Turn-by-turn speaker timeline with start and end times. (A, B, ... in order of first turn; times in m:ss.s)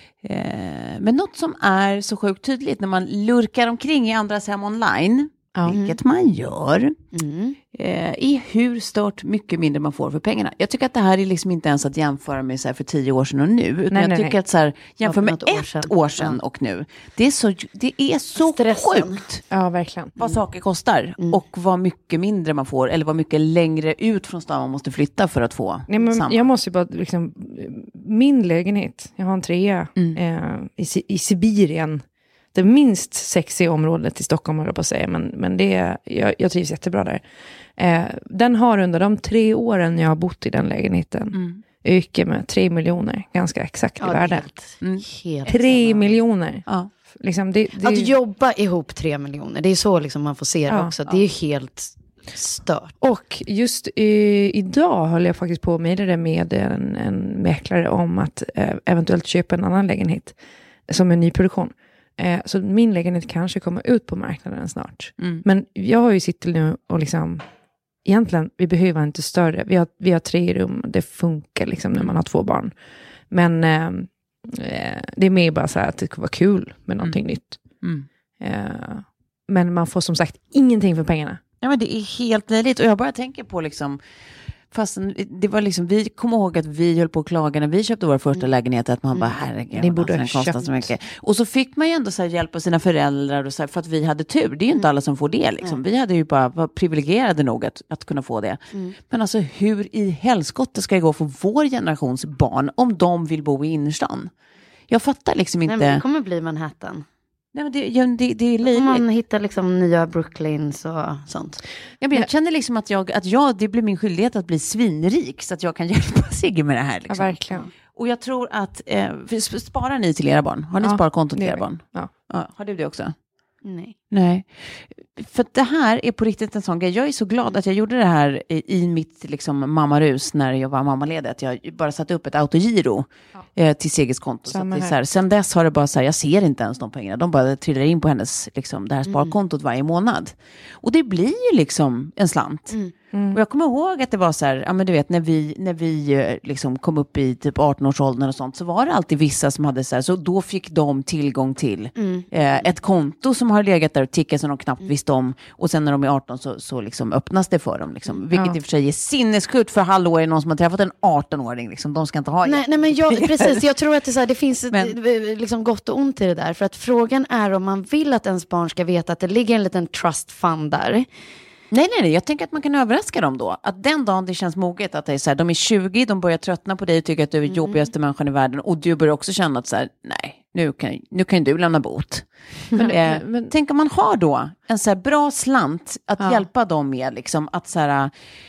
0:00.2-0:07.0 A
0:05.7-0:06.0 B
0:07.1-0:07.6 B
0:07.7-0:19.4 A
0:13.9-0:14.4 C
0:15.0-0:16.4 B
0:18.4-0:19.2 B
0:19.5-0:20.1 C
0:20.2-0:26.4 A
0:25.9-0:37.2 C
0:37.8-0:44.4 C
0:41.3-0:41.6 A
0:44.0-0:46.2 B
0:45.5-0:48.1 C
0:47.8-0:52.9 B
0:53.0-1:00.4 C
1:00.9-1:07.4 C
1:05.2-1:05.4 A
1:08.0-1:12.7 C
1:13.3-1:17.6 C
1:17.8-1:18.1 A
1:18.4-1:21.4 C
1:21.6-1:24.0 A
1:24.7-1:44.3 A
1:29.7-1:30.9 C
1:44.9-1:46.0 A
1:45.7-1:47.0 B
1:47.5-1:49.0 A
1:48.6-1:51.6 B
1:52.0-2:03.1 A
1:57.1-1:57.7 C
2:00.8-2:02.1 C
2:03.6-2:03.9 B
2:04.1-2:22.7 A
2:14.5-2:14.9 C
2:19.1-2:19.3 B
2:23.1-2:23.4 C
2:23.3-2:43.6 A
2:32.0-2:32.6 B
2:42.4-2:51.1 B
2:51.7-3:08.1 A
2:57.5-2:57.9 B
3:02.7-3:03.5 C
3:06.2-3:06.4 C